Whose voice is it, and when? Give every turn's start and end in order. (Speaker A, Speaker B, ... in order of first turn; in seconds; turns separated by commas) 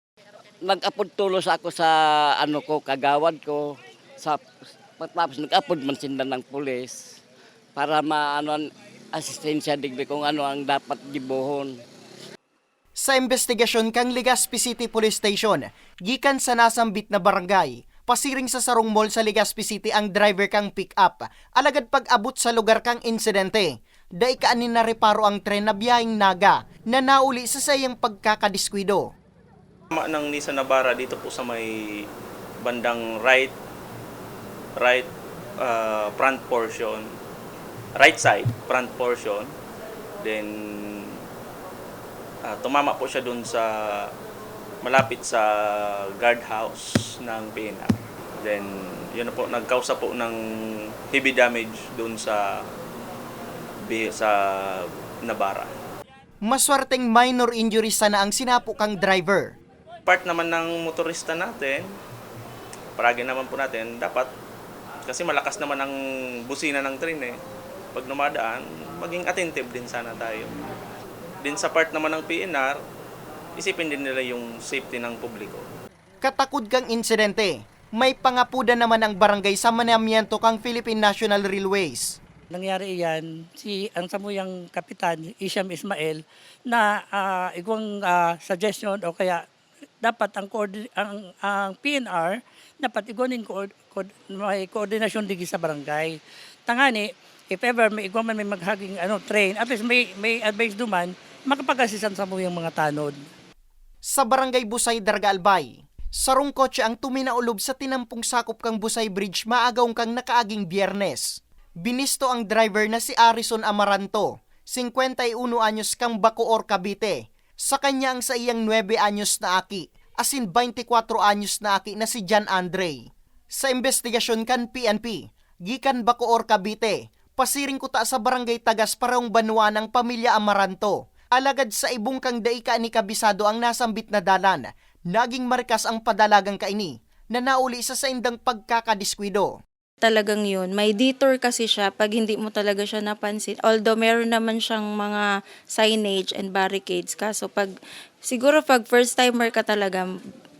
Speaker A: 0.6-4.5, Speaker A: 5.0-7.2, Speaker A: 7.8-11.7, Speaker B: 13.0-29.1, Speaker C: 29.9-32.1, Speaker C: 32.6-33.5, Speaker C: 34.8-37.1, Speaker C: 38.0-39.5, Speaker C: 40.2-41.2, Speaker C: 42.5-44.1, Speaker C: 44.8-52.7, Speaker C: 53.8-55.7, Speaker B: 56.4-59.5, Speaker C: 60.0-62.0, Speaker C: 63.0-64.3, Speaker C: 65.0-65.9, Speaker C: 66.5-67.4, Speaker C: 67.9-70.5, Speaker C: 71.4-72.8, Speaker C: 73.6-75.7, Speaker B: 76.2-82.2, Speaker D: 82.5-89.4, Speaker D: 90.0-103.2, Speaker B: 104.1-139.6, Speaker E: 140.0-145.2, Speaker E: 145.7-147.7, Speaker E: 148.2-150.1